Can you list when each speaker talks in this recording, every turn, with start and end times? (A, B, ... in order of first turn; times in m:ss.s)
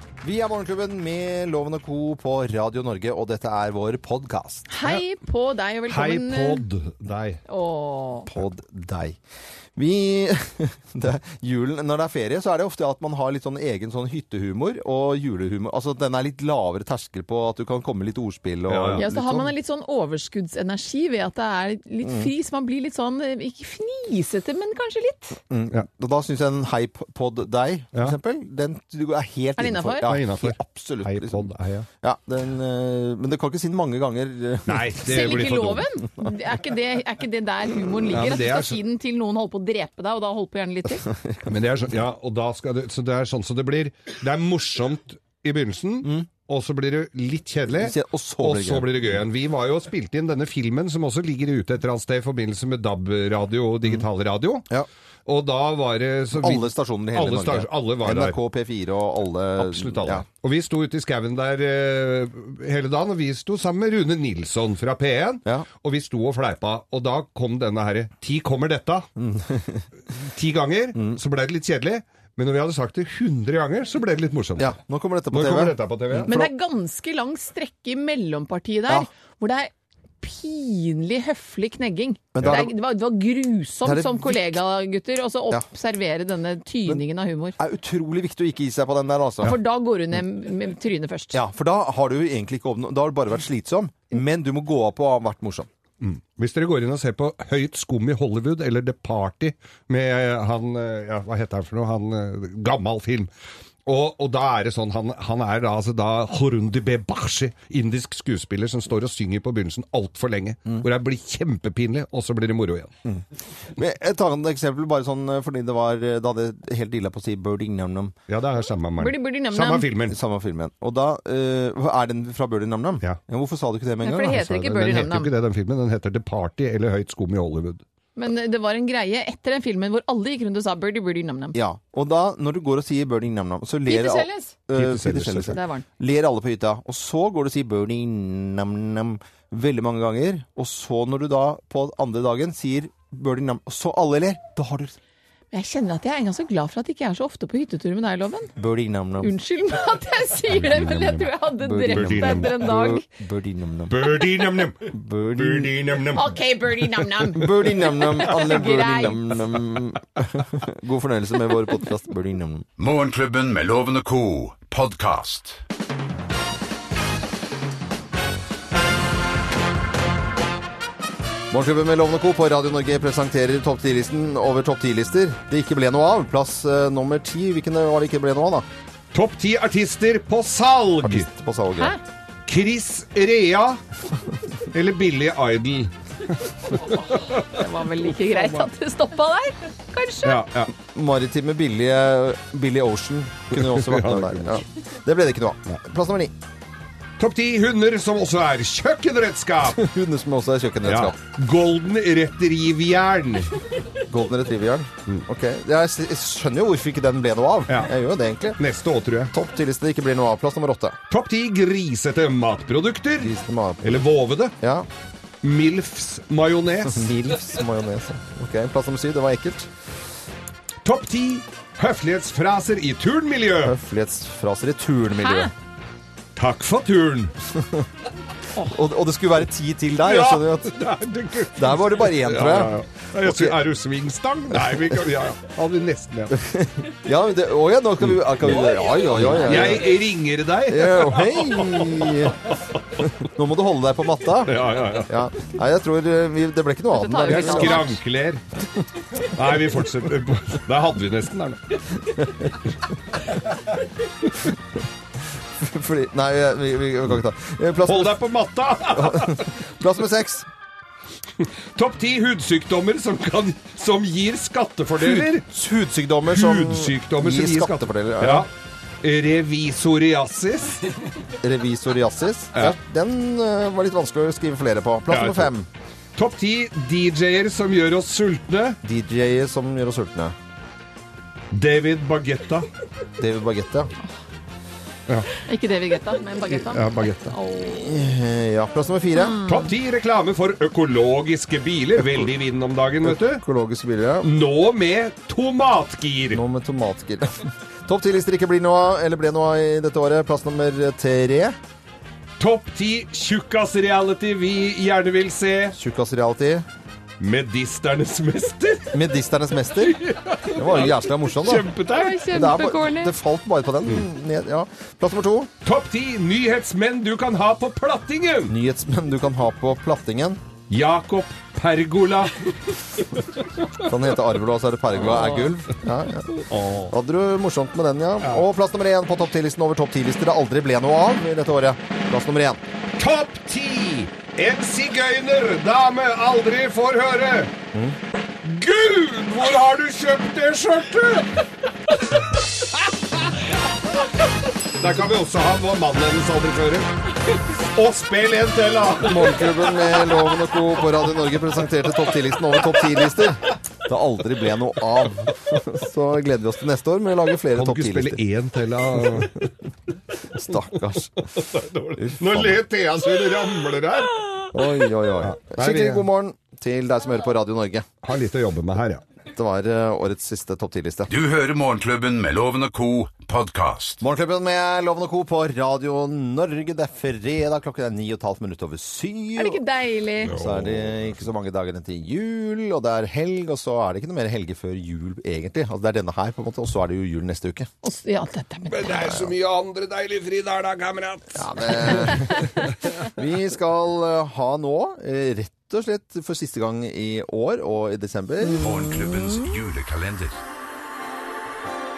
0:00.2-0:04.7 A
0:04.7-0:06.6 B
0:05.9-0:07.4 C
0:07.5-0:08.3 B
0:08.3-0:09.2 A
0:09.8-0:19.5 A
0:18.7-0:19.3 C
0:19.0-0:25.4 B
0:22.0-0:22.3 A
0:25.5-0:31.5 A
0:29.6-0:30.1 B
0:30.0-0:31.9 C
0:32.0-0:35.6 A
0:34.7-0:35.9 C
0:35.0-0:41.0 B
0:38.1-0:38.8 C
0:41.1-0:41.5 A
0:41.4-0:54.6 C
0:46.0-0:46.3 A
0:47.7-0:49.2 A
0:55.2-0:58.4 C
0:56.3-1:00.2 A
0:59.6-1:09.1 C
1:09.2-1:09.9 A
1:10.1-1:14.8 C
1:14.6-1:16.5 A
1:15.3-1:16.3 C
1:16.3-1:27.6 B
1:22.3-1:22.7 A
1:23.8-1:24.6 A
1:27.6-1:29.5 A
1:29.4-1:31.4 B
1:31.3-1:35.7 A
1:36.0-1:43.3 C
1:43.8-1:52.9 C
1:53.8-1:58.1 A
1:58.3-2:00.2 C
1:59.0-1:59.9 B
2:00.1-2:04.4 A
2:04.0-2:05.3 B
2:04.3-2:07.8 C
2:08.2-2:11.6 B
2:11.5-2:25.0 A
2:13.8-2:14.5 B
2:14.7-2:15.6 C
2:15.5-2:15.8 B
2:25.5-2:28.5 B
2:28.6-2:29.3 A
2:29.2-2:33.0 B
2:30.5-2:32.9 C
2:31.6-2:34.1 A
2:33.9-2:36.3 C
2:34.8-2:35.8 A
2:36.1-2:39.2 B
2:37.3-2:38.0 C
2:37.3-2:42.7 A
2:42.8-2:45.6 D
2:51.5-2:58.7 A
2:59.1-3:01.3 C
3:01.0-3:01.9 A
3:02.5-3:03.8 C
3:04.7-3:08.7 C
3:06.8-3:10.4 B
3:10.2-3:10.7 C
3:10.8-3:16.3 A
3:13.5-3:14.6 C
3:17.2-3:19.8 C
3:19.7-3:21.2 A
3:20.8-3:23.5 C
3:24.1-3:28.6 A
3:28.6-3:29.3 C
3:29.3-3:31.0 A
3:31.1-3:34.5 C
3:33.2-3:34.0 A
3:34.6-3:34.9 A
3:35.4-3:37.2 C
3:36.8-3:39.7 A
3:40.8-3:43.8 C
3:43.6-3:45.5 A
3:45.1-3:45.5 B
3:46.4-3:47.3 C
3:47.5-3:47.9 A
3:48.6-3:50.8 A
3:50.0-3:56.4 C
3:51.5-3:53.6 A
3:54.5-3:55.0 A
3:56.3-4:00.0 A
3:58.0-4:03.1 C
3:58.5-3:59.8 B
4:00.6-4:02.4 A
4:03.0-4:07.9 A
4:04.4-4:05.2 C
4:06.9-4:08.0 B
4:07.2-4:08.4 C
4:09.2-4:12.3 C
4:15.6-4:18.2 A
4:17.8-4:19.6 C
4:18.9-4:20.5 A
4:21.7-4:25.4 C
4:25.0-4:28.5 A
4:26.3-4:28.5 C
4:29.0-4:30.9 C
4:31.4-4:35.7 A
4:35.1-4:35.5 C
4:36.2-4:38.8 C
4:38.8-4:40.4 A
4:41.5-4:42.7 C
4:43.2-4:43.9 A
4:45.4-4:47.9 B
4:46.5-4:47.3 C
4:47.7-4:49.4 A
4:49.2-4:49.7 B
4:49.4-4:53.4 C
4:52.0-4:52.2 A
4:53.0-4:54.3 A
4:54.2-4:56.4 C
4:56.3-5:01.6 A
5:02.4-5:05.7 C
5:05.7-5:06.6 A
5:07.2-5:09.1 C
5:08.9-5:11.7 A
5:09.8-5:12.3 C
5:11.9-5:13.1 B
5:12.3-5:15.5 A
5:15.6-5:18.5 C
5:18.5-5:20.4 A
5:20.7-5:23.3 C
5:23.8-5:32.6 A
5:25.1-5:25.5 C
5:26.4-5:26.9 C
5:33.0-5:37.5 C
5:38.4-5:41.4 C
5:41.9-5:43.4 C
5:44.8-5:50.2 C
5:49.0-5:58.2 A
5:57.5-5:59.5 C
5:59.0-5:59.4 A
6:00.4-6:01.2 A
6:00.4-6:04.5 C
6:02.0-6:02.6 A
6:04.5-6:07.9 A
6:05.2-6:06.0 C
6:08.0-6:09.0 C
6:09.2-6:11.1 A
6:11.1-6:14.0 D
6:14.0-6:19.6 A
6:19.4-6:20.3 B
6:20.2-6:21.1 C
6:20.3-6:27.7 A
6:27.8-6:29.1 B
6:28.7-6:32.4 C
6:28.9-6:29.3 A
6:31.3-6:38.7 A
6:38.4-6:39.5 B
6:38.6-6:40.4 D